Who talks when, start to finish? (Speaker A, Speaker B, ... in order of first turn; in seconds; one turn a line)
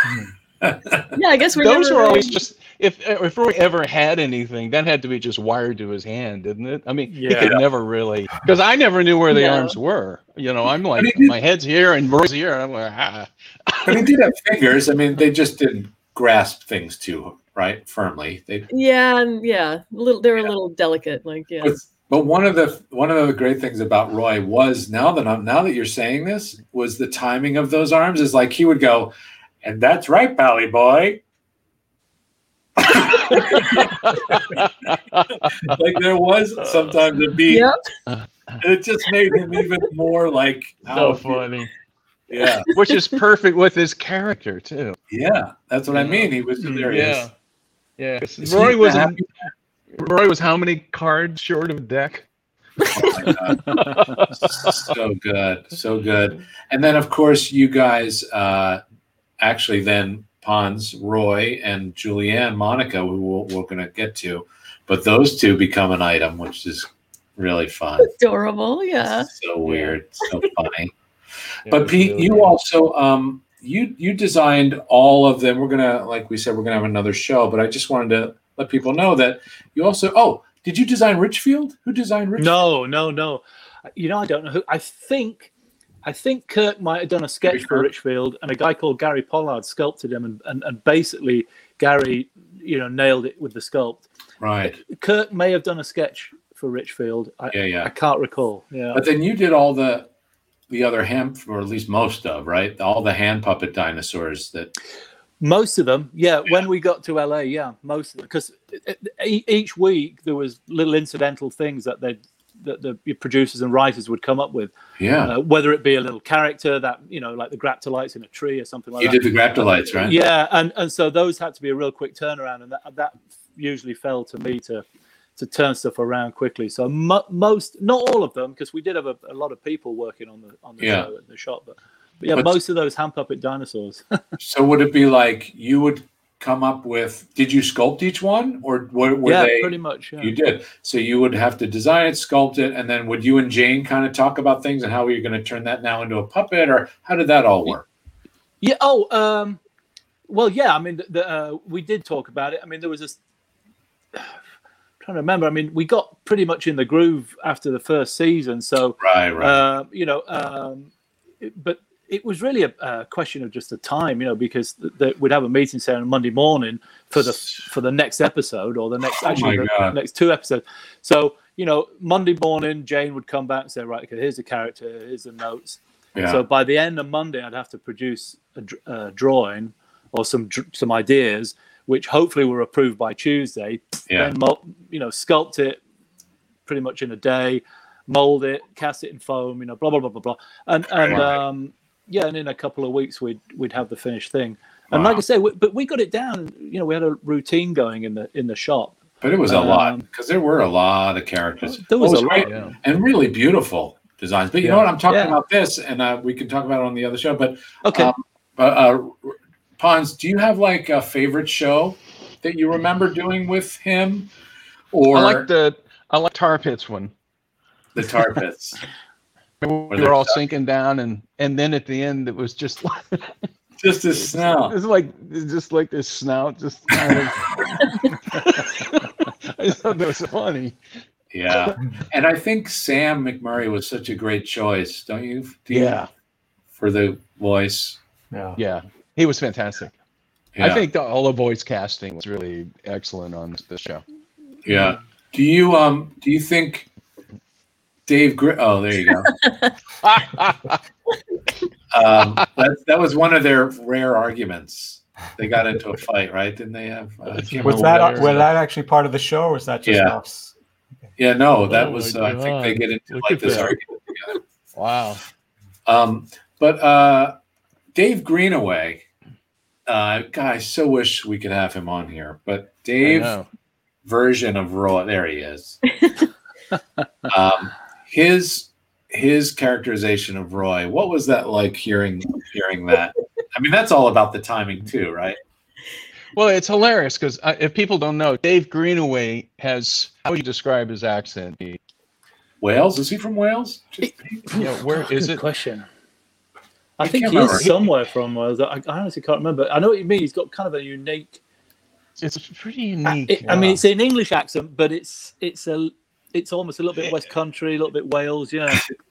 Speaker A: 0.6-1.1
Speaker B: 1.1-2.4
Speaker C: 1.5-14.1
Speaker D: 7.1-7.6
Speaker B: 9.3-9.8
Speaker A: 10.9-11.3
Speaker A: 13.8-18.7
Speaker B: 18.7-21.8
Speaker A: 21.6-31.2
Speaker A: 32.8-34.6
Speaker C: 33.3-35.8
Speaker A: 35.5-37.7
Speaker B: 37.5-37.8
Speaker C: 38.1-38.6
Speaker A: 38.6-41.5
Speaker C: 40.9-41.7
Speaker A: 42.3-42.7
Speaker C: 42.7-45.0
Speaker A: 45.1-47.3
Speaker C: 45.9-47.3
Speaker D: 46.6-46.9
Speaker C: 48.0-49.2
Speaker A: 48.4-49.3
Speaker C: 50.0-52.2
Speaker A: 52.9-53.7
Speaker C: 53.7-54.8
Speaker A: 54.4-58.8
Speaker A: 59.4-68.1
Speaker B: 68.0-69.3
Speaker A: 69.2-70.9
Speaker C: 69.7-69.9
Speaker C: 71.7-72.5
Speaker A: 71.7-82.6
Speaker D: 82.4-83.4
Speaker D: 84.0-85.5
Speaker D: 86.0-94.0
Speaker A: 87.5-87.9
Speaker A: 94.4-94.8
Speaker D: 94.8-99.0
Speaker A: 97.5-97.9
Speaker A: 98.9-100.1
Speaker A: 100.7-104.7
Speaker D: 105.4-114.7
Speaker A: 115.0-115.3
Speaker D: 115.2-124.8
Speaker A: 119.0-120.1
Speaker D: 125.4-134.0
Speaker A: 130.8-131.1
Speaker A: 134.4-147.8
Speaker D: 139.2-140.3
Speaker D: 148.6-149.6
Speaker D: 150.3-153.2
Speaker D: 155.0-160.9
Speaker A: 159.0-159.6
Speaker D: 161.4-185.8
Speaker A: 169.2-169.9
Speaker A: 176.2-176.4
Speaker A: 184.1-184.3
Speaker D: 186.7-200.1
Speaker A: 191.0-191.4
Speaker A: 194.9-195.2
Speaker A: 199.2-214.3
Speaker D: 201.8-202.7
Speaker C: 202.4-202.8
Speaker D: 204.6-205.4
Speaker D: 207.8-208.1
Speaker A: 214.9-215.5
Speaker C: 215.1-217.1
Speaker A: 217.9-218.8
Speaker C: 219.6-223.3
Speaker A: 219.9-220.4
Speaker A: 223.8-224.8
Speaker C: 224.2-227.6
Speaker C: 228.3-230.8
Speaker A: 231.3-236.0
Speaker C: 235.7-236.1
Speaker A: 236.8-238.0
Speaker E: 238.3-238.6
Speaker C: 238.6-239.9
Speaker A: 240.6-240.8
Speaker C: 240.6-244.0
Speaker A: 244.6-246.9
Speaker A: 248.1-249.3
Speaker C: 250.0-250.8
Speaker A: 251.9-258.4
Speaker C: 257.3-258.5
Speaker E: 257.6-260.5
Speaker A: 259.9-260.1
Speaker A: 261.2-264.4
Speaker C: 261.7-263.8
Speaker C: 264.8-265.2
Speaker A: 265.9-267.3
Speaker A: 267.9-269.1
Speaker A: 269.9-273.4
Speaker C: 273.0-273.5
Speaker A: 274.0-275.8
Speaker A: 277.3-285.4
Speaker C: 286.3-291.8
Speaker A: 292.6-294.4
Speaker C: 294.5-295.4
Speaker D: 294.5-295.9
Speaker D: 297.0-301.4
Speaker A: 297.0-297.7
Speaker C: 302.2-303.6
Speaker D: 303.3-308.9
Speaker E: 303.4-303.8